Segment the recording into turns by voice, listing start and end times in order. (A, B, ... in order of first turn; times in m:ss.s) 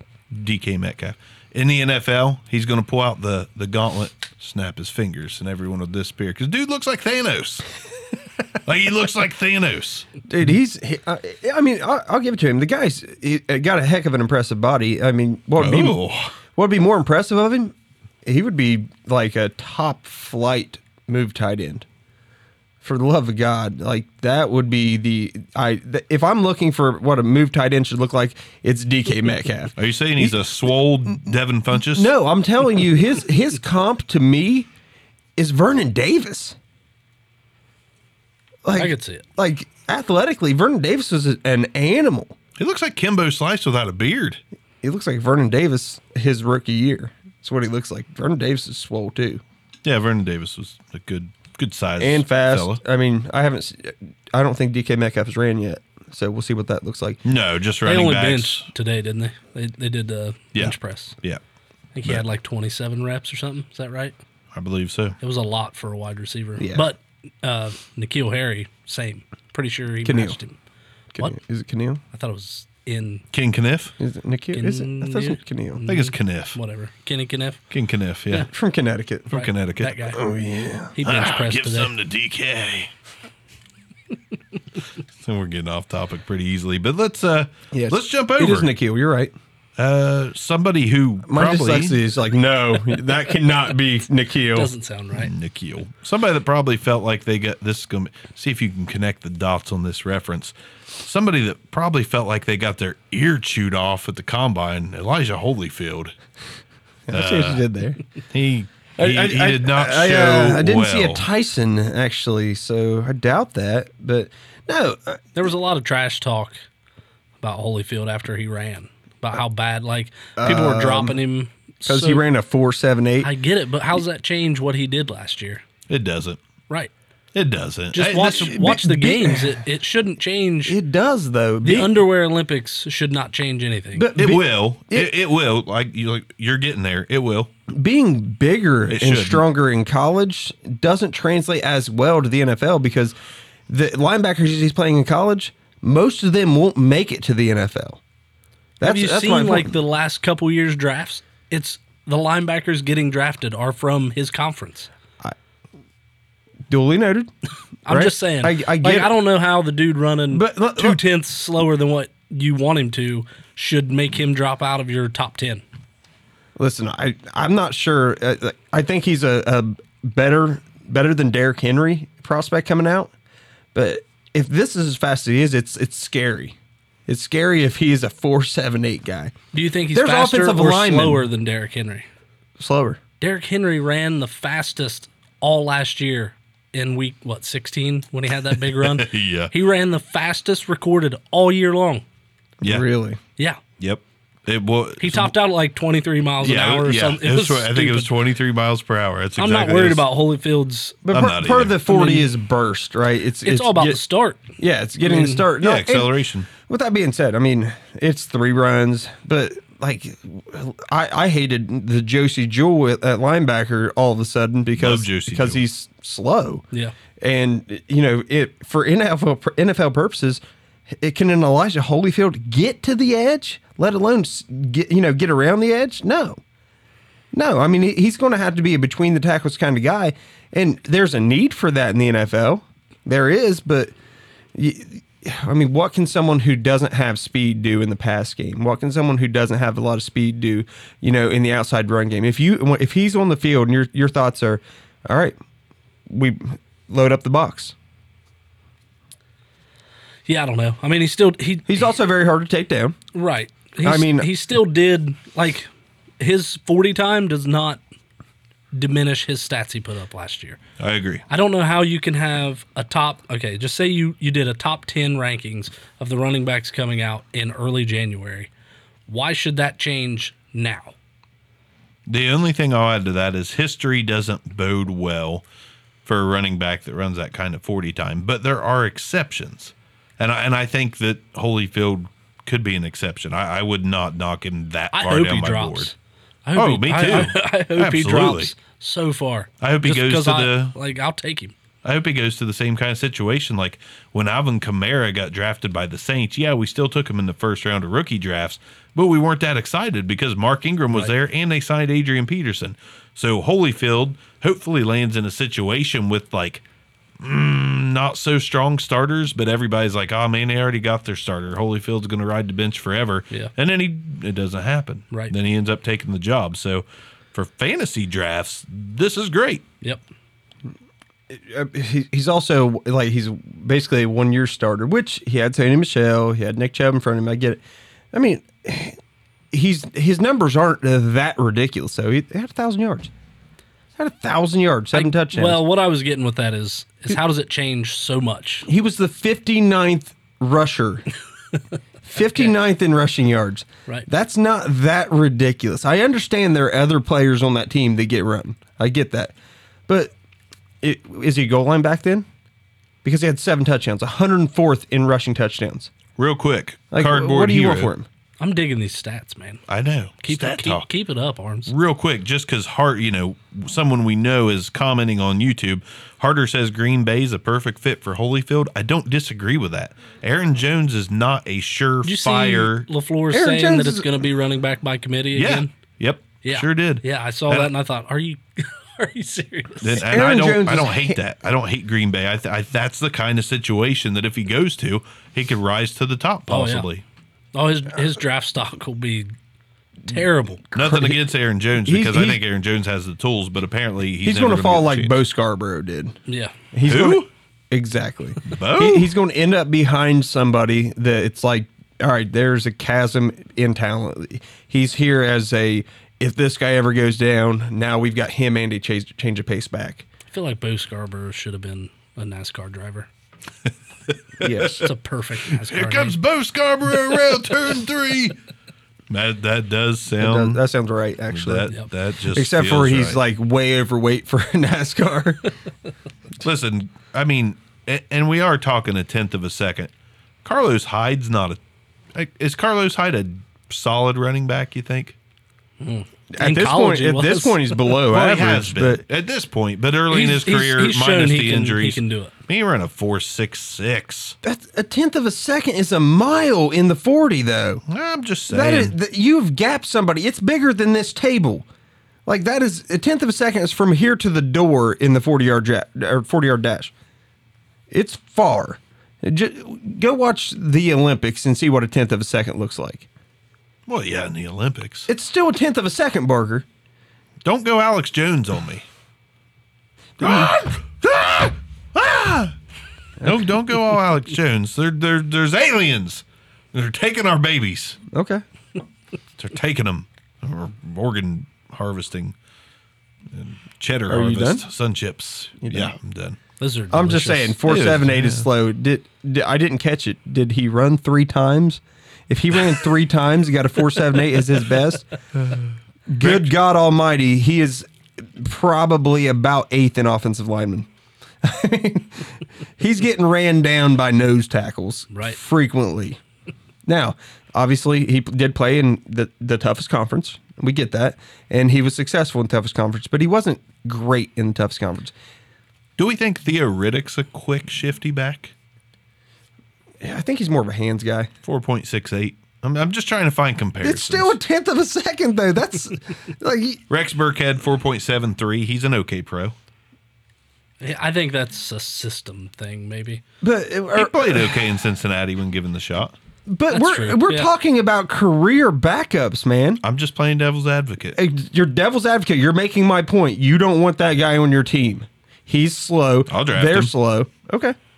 0:00.3-0:07.7 A
0:08.6-0:10.1 A
0:10.3-0:16.0 B
0:15.6-0:16.3 A
0:16.5-0:21.8 B
0:22.8-0:30.4 B
0:29.8-0:32.1 A
0:31.8-0:34.7 B
0:35.4-0:36.6 B
0:38.6-0:42.3 B
0:38.7-0:39.2 C
0:42.6-0:44.4 A
0:44.8-0:49.4 B
0:49.8-0:52.8 A
0:52.0-0:57.2 B
0:57.2-0:58.6 A
0:57.8-1:01.2 C
1:00.5-1:01.4 A
1:01.9-1:04.1 C
1:04.5-1:05.2 A
1:05.2-1:10.6 C
1:06.6-1:06.9 B
1:10.0-1:10.4 B
1:11.1-1:12.0 B
1:12.1-1:13.2 C
1:13.3-1:13.9 A
1:14.0-1:15.8 B
1:14.5-1:17.6 C
1:15.8-1:16.6 A
1:17.7-1:18.5 A
1:18.5-1:19.3 B
1:19.3-1:20.0 A
1:19.3-1:20.2 C
1:20.1-1:21.0 B
1:20.9-1:21.9 C
1:21.0-1:22.9 A
1:25.2-1:28.7 A
1:27.7-1:29.3 B
1:29.8-1:32.0 A
1:31.3-1:34.7 B
1:34.5-1:35.3 C
1:35.1-1:46.1 A
1:47.1-1:48.0 B
1:47.1-1:47.6 A
1:48.3-1:51.2 A
1:49.0-1:55.3 B
1:55.3-1:56.6 C
1:57.4-2:02.2 C
2:00.4-2:01.2 B
2:01.8-2:03.3 B
2:03.2-2:05.6 C
2:05.9-2:06.4 A
2:07.3-2:08.5 A
2:07.9-2:10.8 C
2:08.1-2:09.6 B
2:10.6-2:12.0 B
2:11.6-2:14.1 C
2:13.9-2:15.1 B
2:14.2-2:17.5 A
2:17.7-2:23.1 B
2:18.9-2:19.4 A
2:23.7-2:28.0 B
2:28.8-2:29.7 B
2:28.8-2:34.9 C
2:36.7-2:37.3 B
2:37.8-2:45.6 C
2:37.9-2:39.1 B
2:40.3-2:41.0 B
2:46.6-2:53.1 B
2:53.7-2:56.6 B
2:57.1-2:59.3 B
2:59.5-3:02.1 C
2:59.9-3:01.2 B
3:02.6-3:03.0 B
3:03.2-3:12.0 C
3:08.8-3:09.5 A
3:12.6-3:13.2 B
3:12.6-3:12.9 A
3:13.8-3:15.3 A
3:15.0-3:18.1 C
3:16.4-3:20.0 A
3:19.4-3:21.0 C
3:21.0-3:24.0 B
3:21.1-3:21.8 A
3:21.8-3:22.3 C
3:23.4-3:24.5 C
3:24.6-3:36.6 B
3:25.0-3:25.4 C
3:25.6-3:26.5 A
3:34.8-3:35.6 A
3:37.2-3:46.4 B
3:47.3-3:53.9 B
3:54.5-4:05.4 B
4:06.1-4:07.7 B
4:10.2-4:11.8 C
4:11.7-4:13.0 B
4:13.1-4:15.7 C
4:13.8-4:14.3 B
4:16.2-4:17.8 C
4:18.7-4:20.6 C
4:20.8-4:21.2 A
4:21.3-4:28.5 C
4:29.1-4:30.9 C
4:32.0-4:35.4 A
4:36.0-4:45.9 A
4:44.9-4:45.9 C
4:46.4-4:51.5 C
4:46.5-4:48.5 A
4:49.6-4:50.7 A
4:51.8-5:06.6 A
5:07.2-5:19.6 A
5:21.3-5:27.6 B
5:28.1-5:29.0 B
5:29.5-5:33.1 B
5:34.0-5:35.6 B
5:34.9-5:38.7 C
5:38.6-5:41.0 B
5:42.0-5:49.3 B
5:49.9-5:50.1 B
5:50.8-5:52.2 B
5:53.0-5:55.9 B
5:56.2-5:57.9 A
5:56.9-5:58.1 B
5:58.4-5:59.6 C
5:59.7-6:00.9 A
6:00.2-6:01.7 C
6:01.7-6:12.9 A
6:12.0-6:15.7 C
6:13.3-6:14.2 B
6:15.3-6:17.7 A
6:16.4-6:20.0 C
6:19.8-6:27.0 A
6:20.0-6:21.2 B
6:26.5-6:26.9 C
6:27.5-6:29.3 C
6:30.1-6:30.7 C
6:30.7-6:31.2 B
6:30.7-6:35.2 A
6:31.8-6:32.4 B
6:34.2-6:36.2 B
6:36.3-6:36.5 C
6:36.7-6:50.0 B
6:36.8-6:37.3 A
6:38.5-6:39.1 A
6:50.3-6:53.1 C
6:54.4-6:54.8 B
6:54.4-6:54.8 A
6:54.5-6:56.2 C
6:55.5-6:58.4 A
6:59.1-7:00.6 A
7:00.2-7:01.7 B
7:01.3-7:03.2 A
7:02.3-7:05.5 B
7:06.4-7:09.9 A
7:10.4-7:11.6 A
7:12.1-7:15.1 A
7:15.8-7:17.8 C
7:16.3-7:19.0 B
7:18.1-7:24.4 A
7:20.1-7:22.3 C
7:24.4-7:27.8 B
7:27.9-7:28.9 A
7:28.5-7:31.6 B
7:32.2-7:36.9 B
7:37.9-7:43.1 B
7:43.9-7:45.1 A
7:45.1-7:46.6 B
7:47.4-7:48.8 A
7:50.2-7:50.5 B
7:50.2-7:52.5 A
7:53.2-7:58.0 A
7:58.1-7:58.4 B
7:59.4-8:02.3 A
8:03.3-8:06.4 A
8:04.1-8:04.6 B
8:05.6-8:05.9 B
8:06.6-8:07.6 C
8:06.9-8:15.1 B
8:07.6-8:08.5 A
8:16.1-8:20.9 B
8:16.2-8:16.5 A
8:21.4-8:26.2 B
8:25.1-8:25.4 C
8:26.8-8:35.1 B
8:36.0-8:38.5 A
8:40.0-8:41.3 B
8:41.4-8:44.4 A
8:43.8-8:46.8 B
8:46.9-8:49.5 A
8:50.8-8:53.2 C
8:53.4-8:54.6 B
8:53.9-8:56.1 A
8:56.5-8:59.8 B
8:56.7-8:57.5 C
8:59.8-9:01.2 A
9:01.1-9:07.8 B
9:06.3-9:06.9 A